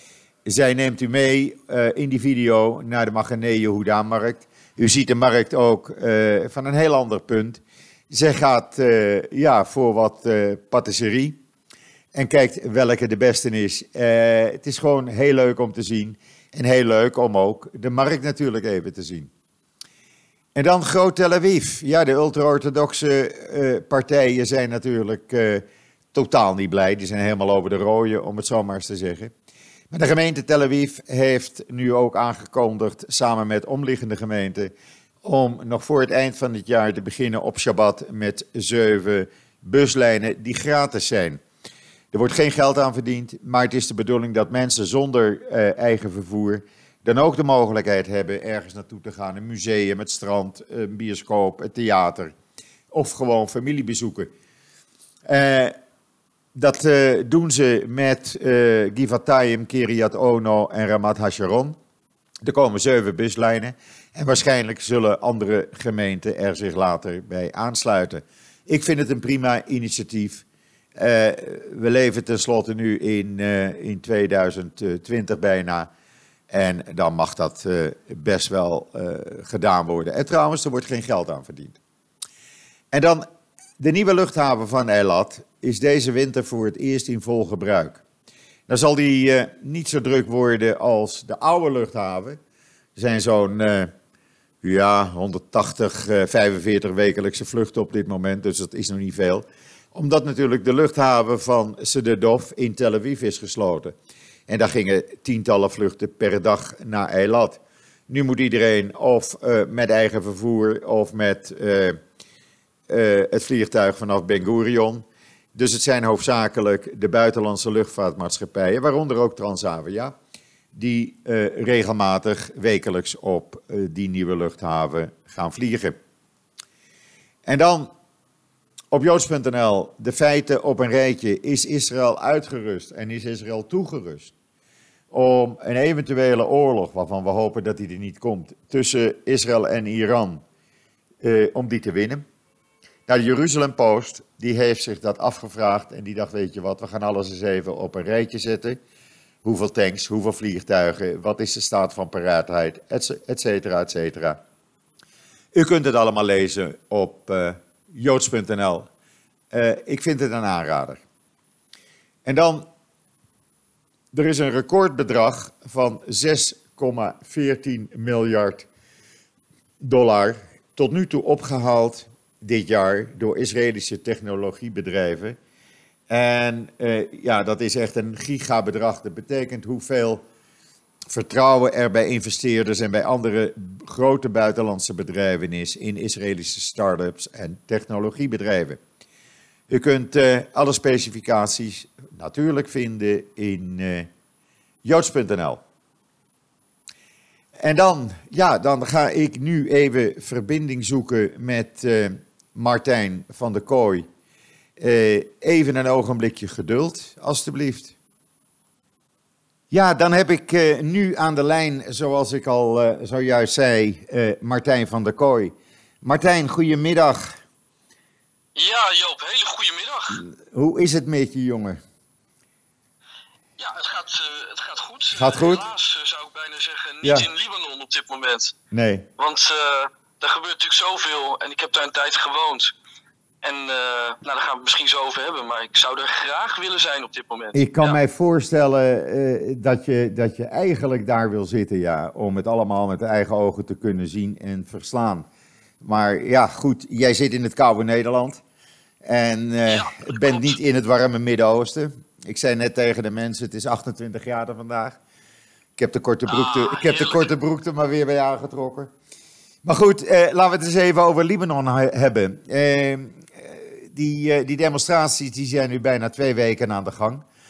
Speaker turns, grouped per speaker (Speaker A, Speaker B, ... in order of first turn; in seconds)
Speaker A: 0.5-11.4, 12.1-19.3, 20.5-29.3, 29.9-34.7, 35.2-41.4, 42.1-52.3, 52.9-54.3, 55.3-55.8, 56.5-61.8, 62.4-70.4, 71.0-75.9, 76.5-81.8, 82.9-83.2, 83.8-88.0, 88.7-92.4, 93.0-93.9, 94.6-103.9, 104.5-112.0, 112.9-120.1, 120.7-126.0, 127.5-127.9, 128.9-134.3, 135.1-140.4, 141.2-142.2, 143.1-148.8, 149.4-154.4, 155.5-158.9, 159.5-161.0, 162.2-162.7, 164.1-168.7, 169.8-175.4, 176.1-180.2, 181.1-188.8, 189.7-194.1, 194.8-195.6, 197.6-204.1, 204.8-207.9, 209.7-217.4, 220.1-221.8, 225.1-225.7, 227.0-227.3, 228.7-229.1, 237.5-245.2, 245.8-248.4, 249.0-255.0, 255.8-258.9, 259.6-267.2
Speaker B: 218.5-220.2, 223.6-228.5, 229.2-232.7, 233.4-238.0, 249.7-250.6, 256.3-257.3